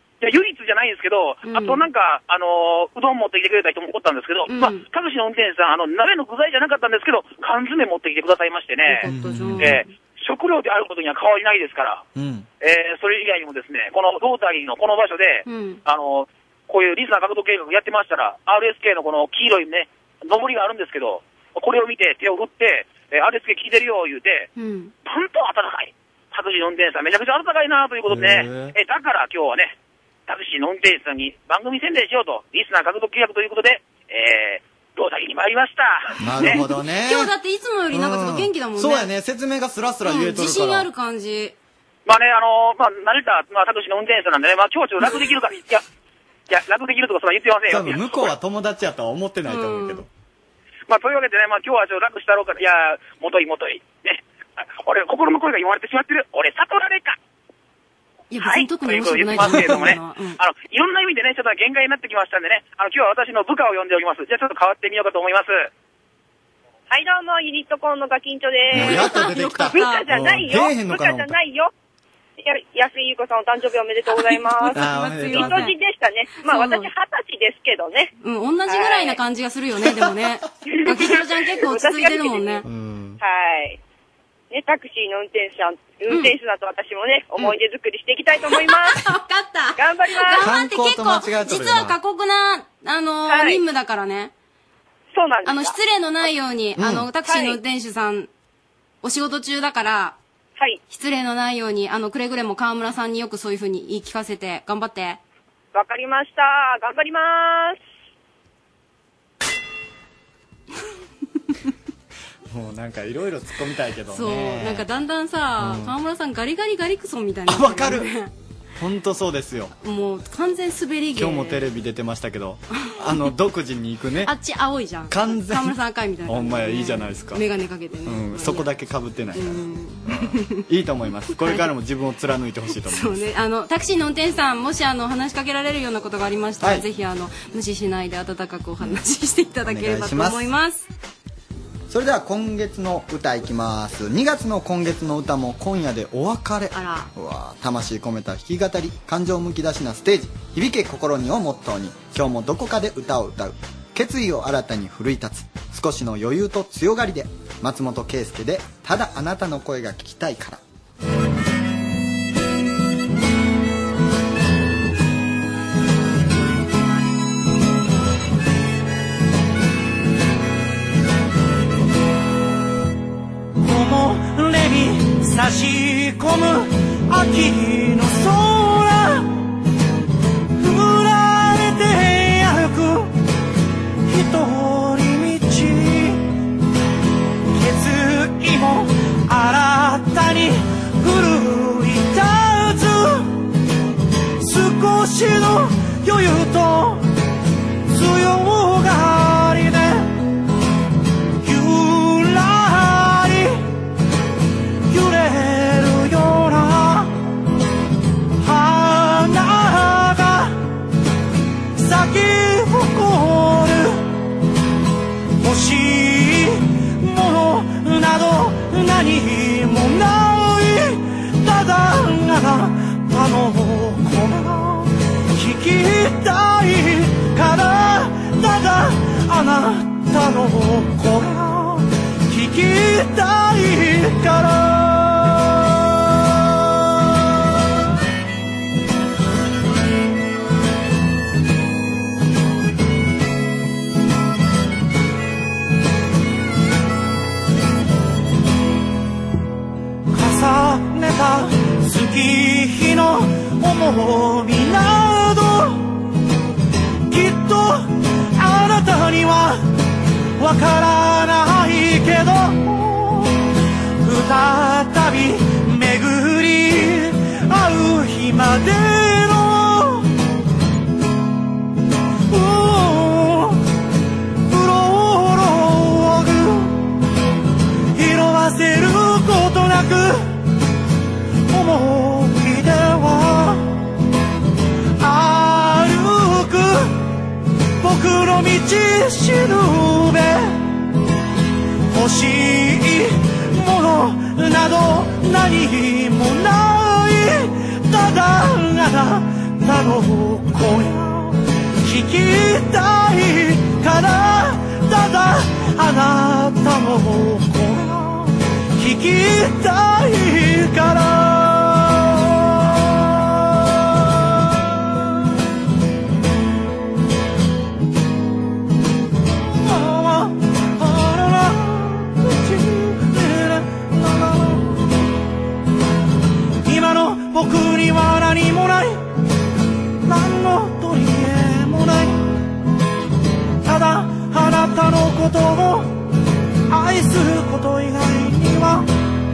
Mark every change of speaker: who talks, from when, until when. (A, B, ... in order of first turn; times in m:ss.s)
0:00.2-0:09.1 A
0:01.4-0:01.8 B
0:04.5-0:04.8 B
0:08.9-0:09.9 B
0:09.0-0:09.8 C
0:09.6-0:12.0 A
0:12.2-0:12.4 C
0:12.6-0:24.5 A
0:15.4-0:15.8 B
0:24.6-0:24.9 B
0:25.0-0:29.7 A
0:28.1-0:28.7 C
0:30.3-0:36.6 A
0:36.2-0:37.3 C
0:36.4-0:39.1 B
0:37.9-0:40.9 C
0:40.0-0:41.5 B
0:42.0-0:45.8 A
0:46.5-0:48.3 A
0:47.7-0:50.1 C
0:49.5-0:50.0 B
0:50.9-0:57.2 A
0:58.3-1:00.4 B
0:58.4-1:05.7 A
1:06.9-1:11.7 D
1:08.7-1:11.4 C
1:08.7-1:10.1 B
1:12.4-1:18.1 D
1:14.1-1:15.8 B
1:14.7-1:15.6 C
1:16.4-1:16.9 B
1:18.2-1:22.6 B
1:18.7-1:19.2 D
1:20.7-1:22.6 D
1:22.6-1:23.2 C
1:23.2-1:23.8 D
1:24.5-1:29.0 D
1:28.6-1:34.3 B
1:29.8-1:30.5 D
1:30.4-1:32.0 C
1:33.3-1:33.6 D
1:35.1-1:36.3 D
1:35.4-1:38.3 B
1:36.8-1:37.1 C
1:37.2-1:37.6 D
1:39.0-1:40.2 B
1:40.9-1:45.2 B
1:45.7-1:47.8 D
1:52.5-1:54.8 C
1:54.1-1:58.3 B
1:55.6-1:55.9 C
1:57.5-1:58.1 C
1:58.8-1:59.7 C
1:59.8-2:01.6 B
2:01.2-2:04.3 C
2:04.2-2:08.7 B
2:05.1-2:07.4 C
2:08.0-2:09.6 C
2:09.3-2:10.6 B
2:10.7-2:13.2 C
2:11.4-2:11.7 B
2:12.9-2:20.9 B
2:19.6-2:20.5 C
2:21.9-2:40.6 C
2:26.7-2:27.1 B
2:53.6-2:59.3 E
3:00.6-3:03.1 E
3:04.1-3:06.4 E
3:07.5-3:13.4 E
3:14.4-3:17.1 E
3:17.9-3:20.2 E
3:21.4-3:23.7 E
3:24.9-3:27.2 E
3:28.4-3:30.6 E
3:31.8-3:34.1 E
3:35.4-3:55.7 E
4:10.1-4:16.0 E
4:17.1-4:19.7 E
4:20.4-4:23.5 E
4:24.0-4:30.1 E
4:32.3-4:33.6 E
4:34.5-4:36.9 E
4:37.9-4:40.4 E
4:41.5-4:43.8 E
4:45.0-4:47.0 E
4:47.8-4:50.7 E
4:51.9-5:14.9 E
5:19.6-5:24.9 E
5:26.6-5:29.0 E
5:30.0-5:32.4 E
5:33.6-5:36.0 E
5:36.7-5:38.9 E